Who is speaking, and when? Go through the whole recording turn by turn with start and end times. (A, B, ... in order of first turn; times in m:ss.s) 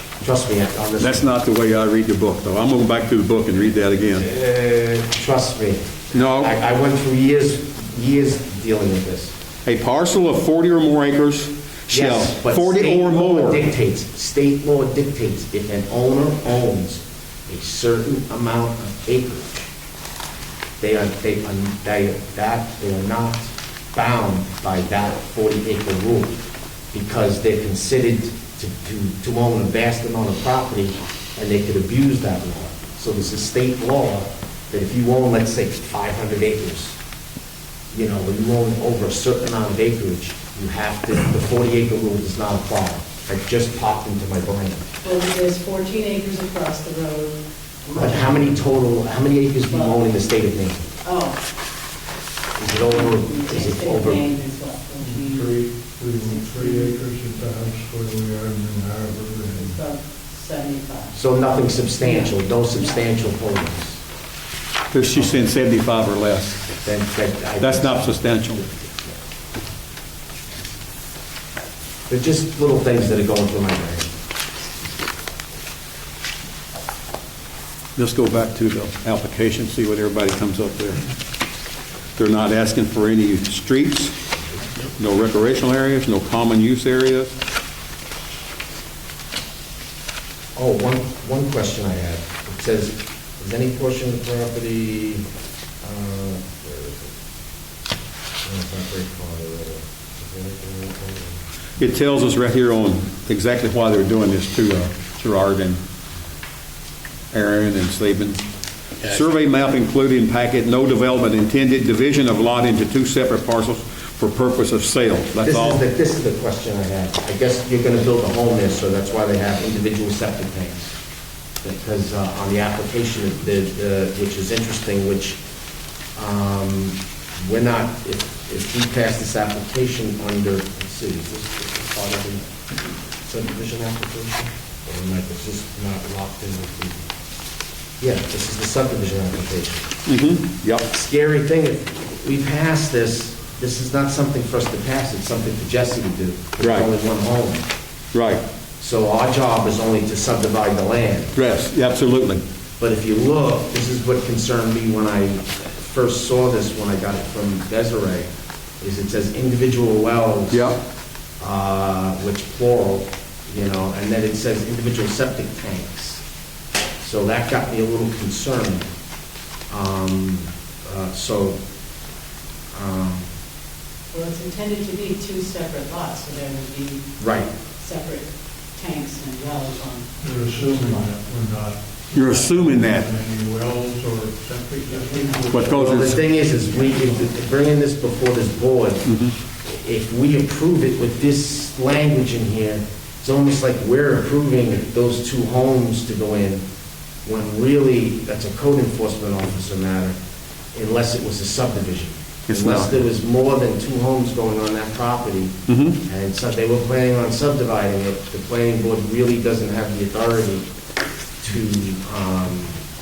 0:00.2-0:01.3 A
0:01.0-0:04.2 B
0:04.2-0:09.3 A
0:06.1-0:06.5 B
0:09.6-0:13.7 B
0:11.9-0:19.7 A
0:20.8-0:26.4 A
0:26.9-0:37.0 A
0:37.9-0:44.9 A
0:45.0-0:48.4 C
0:47.9-0:50.9 A
0:48.1-0:48.5 D
0:49.7-0:50.0 C
0:51.0-0:51.4 C
0:52.6-0:54.2 A
0:52.8-0:55.6 C
0:55.0-0:59.8 D
0:56.2-0:56.9 C
0:59.6-1:01.2 C
1:01.1-1:04.0 A
1:02.0-1:03.0 C
1:04.9-1:06.7 B
1:05.1-1:05.4 A
1:06.8-1:08.6 A
1:07.6-1:08.6 B
1:12.1-1:14.1 A
1:18.0-1:21.0 B
1:22.2-1:24.1 B
1:25.0-1:27.3 B
1:30.6-1:35.2 A
1:35.8-1:37.1 A
1:38.4-1:41.4 A
1:41.8-1:45.8 B
1:47.3-1:48.4 B
1:49.0-1:55.8 B
1:55.4-2:01.0 A
2:01.6-2:05.4 A
2:06.2-2:12.6 A
2:13.2-2:17.0 A
2:18.0-2:19.9 A
2:20.0-2:20.9 B
2:20.9-2:27.6 A
2:26.6-2:26.9 B
2:28.1-2:28.4 B
2:28.8-2:31.4 A
2:31.3-2:32.4 B
2:32.8-2:38.3 A
2:38.8-2:40.8 A
2:40.5-2:40.8 B
2:41.4-2:46.2 A
2:47.0-2:48.9 A
2:49.7-2:51.6 A
2:52.7-2:53.3 A
2:54.1-2:57.0 C
2:57.2-2:57.5 A
2:57.8-3:01.1 C
3:00.2-3:07.3 D
3:02.1-3:03.1 B
3:04.9-3:05.6 C
3:05.5-3:06.2 B
3:05.6-3:09.1 A
3:09.0-3:09.3 B
3:09.6-3:16.6 A
3:17.2-3:20.1 A
3:20.7-3:30.7 A
3:22.5-3:22.9 B
3:25.7-3:26.0 B
3:31.4-3:32.8 A